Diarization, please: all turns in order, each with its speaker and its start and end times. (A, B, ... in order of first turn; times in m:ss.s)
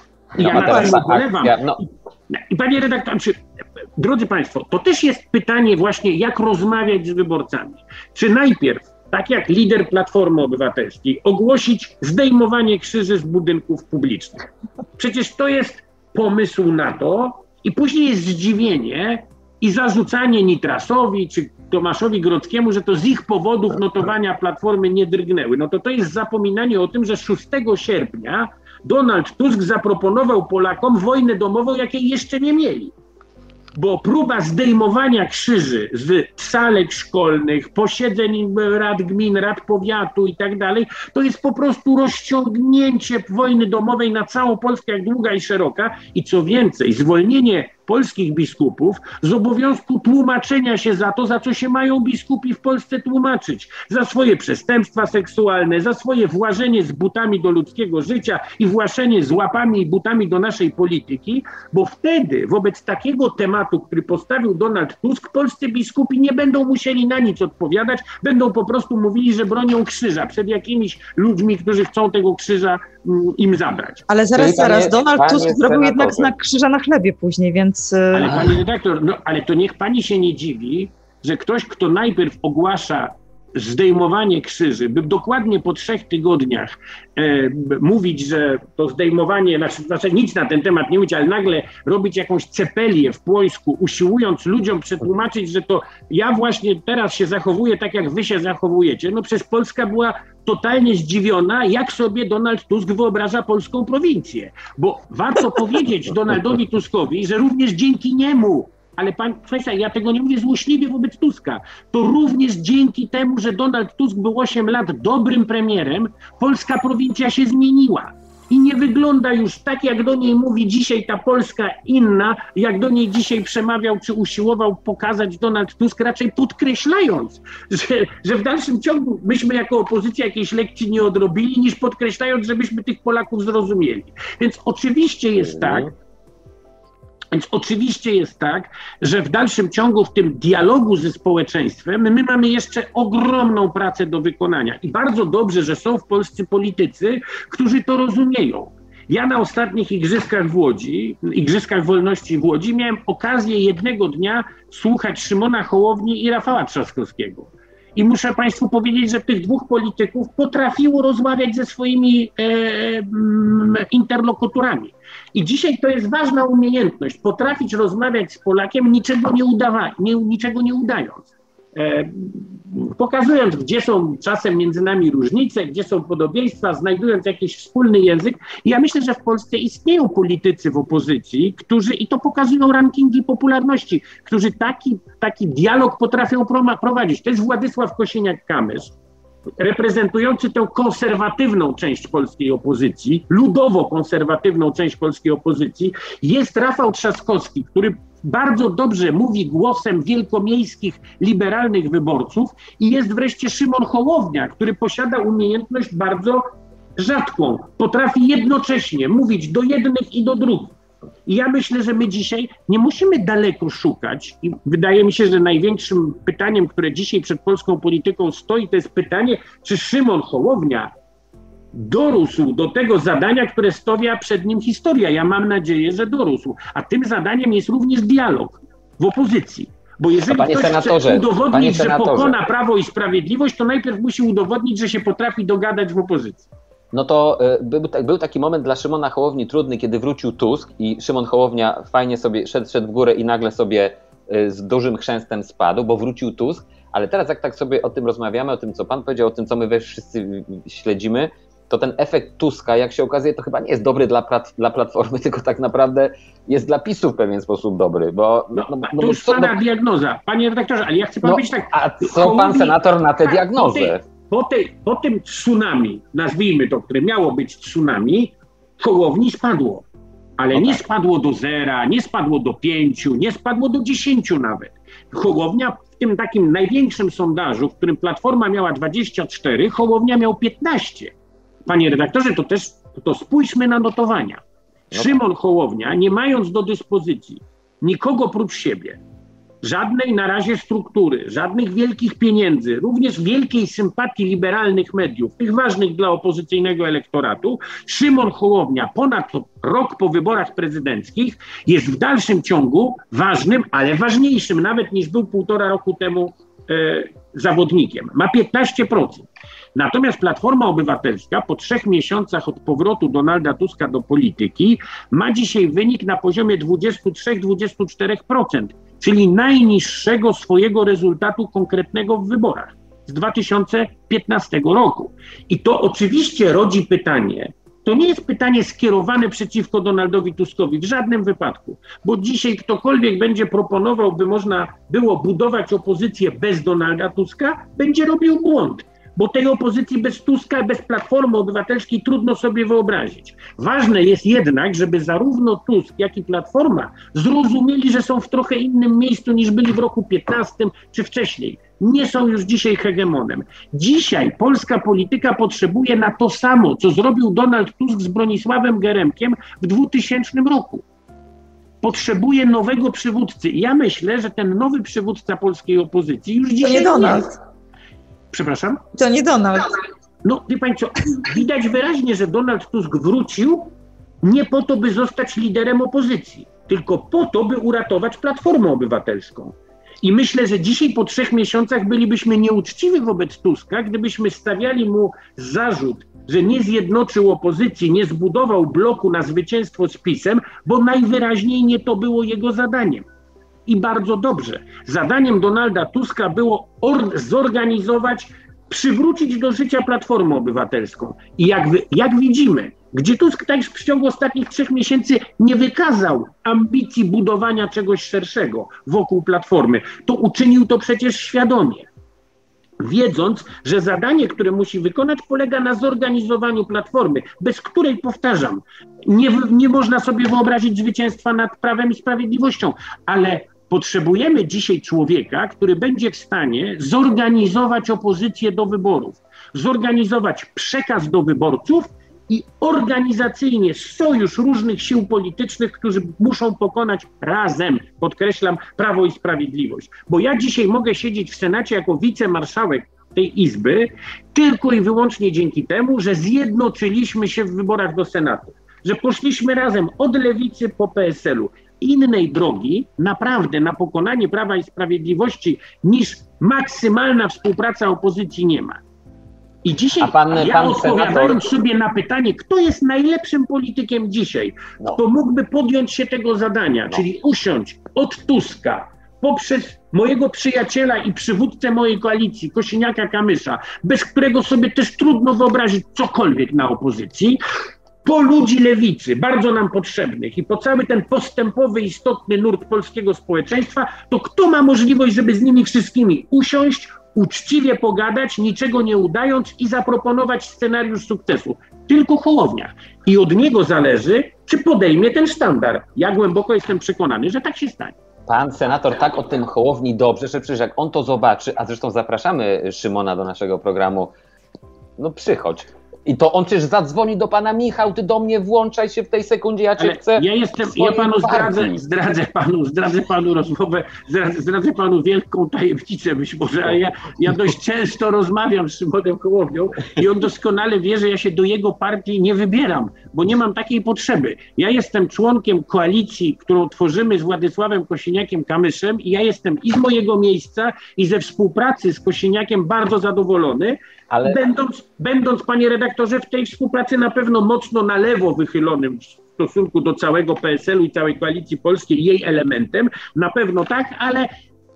0:00.4-0:01.8 A
0:00.4-0:03.4 B
0:00.6-0:01.0 C
0:04.0-0:32.9 B
0:33.8-1:14.0 B
1:14.1-1:18.4 C
1:14.4-1:16.3 A
1:18.1-2:15.9 B
1:18.2-1:18.5 A
2:15.4-2:15.9 A
2:17.3-3:08.9 B
3:09.6-3:26.4 B
3:27.0-3:40.9 B
3:41.7-3:56.5 B
3:50.3-3:52.4 A
3:56.9-4:19.6 A
4:18.5-4:29.9 B
4:21.2-4:24.0 A
4:30.4-4:41.1 B
4:30.5-4:30.8 A
4:41.7-4:44.4 B
4:44.9-4:45.2 A
4:44.9-4:49.0 B
4:49.6-6:00.8 B
6:01.8-6:07.3 B
6:06.6-6:07.3 C
6:08.3-6:08.8 B
6:09.0-6:09.7 C
6:10.2-6:33.1 B
6:33.7-6:51.9 B
6:52.8-7:38.8 B
7:39.6-7:57.4 B
7:40.0-7:41.5 A
7:58.0-8:18.0 B
8:18.3-8:24.1 A
8:25.0-8:31.8 A
8:29.8-9:04.3 B
8:54.1-8:54.4 A